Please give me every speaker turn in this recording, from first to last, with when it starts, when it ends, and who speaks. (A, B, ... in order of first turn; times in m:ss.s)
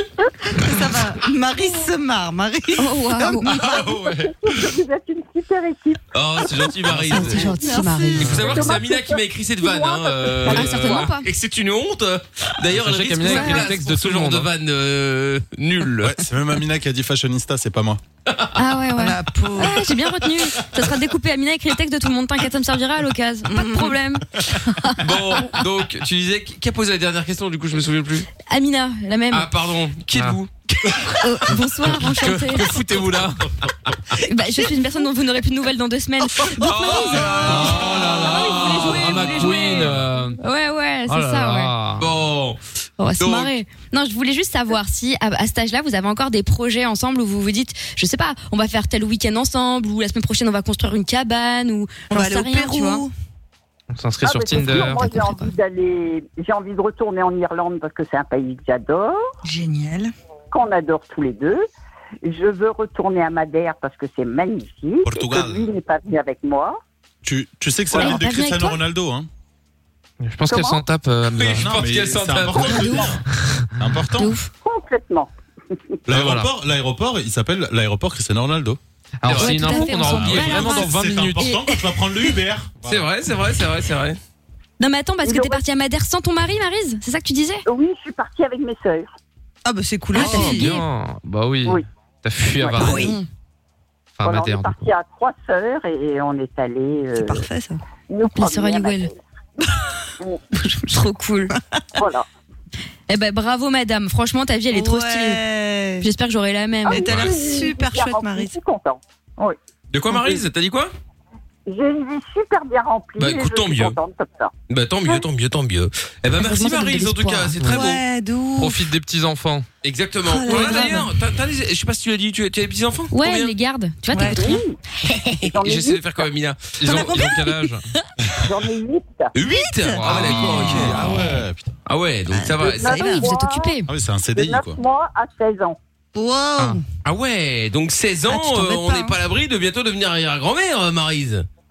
0:00.5-0:03.7 A
0:02.8-0:03.5 B
0:03.4-0:06.0 C
0:03.7-0:04.1 D
0:03.8-0:04.1 E
0:06.1-0:07.5 D
0:07.1-0:08.5 B
0:07.1-0:08.4 A
0:08.2-0:16.2 D
0:08.2-0:11.1 C
0:08.2-0:08.6 F
0:10.5-0:11.3 B
0:12.7-0:14.5 F
0:13.3-0:13.6 B
0:16.0-0:18.0 E
0:18.6-0:25.5 B
0:19.0-0:19.9 A
0:23.5-0:24.0 A
0:25.0-0:28.3 D
0:28.5-0:29.5 B
0:29.3-0:31.1 D
0:30.1-0:30.4 F
0:31.2-0:32.7 B
0:31.9-0:33.4 F
0:32.2-0:33.3 D
0:34.2-0:41.8 B
0:36.6-0:40.0 D
0:37.5-0:40.4 F
0:41.1-0:42.1 F
0:42.0-0:42.6 D
0:43.0-0:53.1 B
0:43.2-0:43.5 D
0:52.1-0:53.1 A
0:53.9-0:55.2 F
0:54.2-0:59.2 C
0:54.7-0:55.5 B
0:59.4-1:00.1 A
1:00.5-1:01.6 C
1:02.2-1:06.8 C
1:05.0-1:05.7 E
1:07.2-1:09.3 E
1:08.0-1:08.8 B
1:10.2-1:11.7 F
1:10.5-1:10.8 C
1:11.3-1:13.1 D
1:11.6-1:13.2 E
1:13.8-1:14.4 E
1:14.2-1:14.5 B
1:14.5-1:15.3 C
1:16.1-1:18.8 E
1:16.1-1:16.5 F
1:19.2-1:21.6 F
1:19.2-1:19.8 D
1:19.3-1:21.5 B
1:20.0-1:23.1 E
1:22.8-1:24.2 D
1:24.8-1:27.6 B
1:25.2-1:25.6 C
1:27.7-1:29.1 C
1:29.6-1:30.7 A
1:30.2-1:30.9 B
1:30.2-1:33.2 F
1:32.6-1:33.0 C
1:32.8-1:33.2 A
1:32.8-1:33.2 B
1:34.2-1:34.8 F
1:34.2-1:37.4 C
1:37.2-1:37.8 A
1:38.1-1:39.2 C
1:38.4-1:39.1 B
1:40.8-1:41.5 B
1:42.0-1:42.3 C
1:43.1-1:45.4 B
1:44.7-1:46.1 A
1:46.0-1:47.2 B
1:46.8-1:49.6 C
1:46.9-1:48.6 A
1:49.9-1:50.9 D
1:51.7-1:54.5 C
1:53.2-1:54.0 D
1:54.7-1:58.0 D
1:56.4-1:57.6 B
1:57.6-1:58.8 A
1:58.6-1:59.7 F
1:59.8-2:03.5 D
2:00.2-2:01.1 A
2:03.1-2:04.6 B
2:04.1-2:04.5 A
2:04.3-2:04.8 C
2:05.4-2:06.2 C
2:05.4-2:07.3 D
2:06.8-2:07.8 F
2:06.8-2:07.6 A
2:08.4-2:09.3 C
2:09.4-2:11.1 D
2:09.4-2:11.0 A
2:09.9-2:11.3 F
2:10.3-2:11.7 E
2:11.9-2:13.0 D
2:12.3-2:13.3 A
2:12.7-2:13.8 C
2:13.0-2:13.9 B
2:13.9-2:14.8 E
2:14.4-2:15.8 C
2:16.2-2:16.8 A
2:17.0-2:21.5 D
2:18.3-2:19.0 A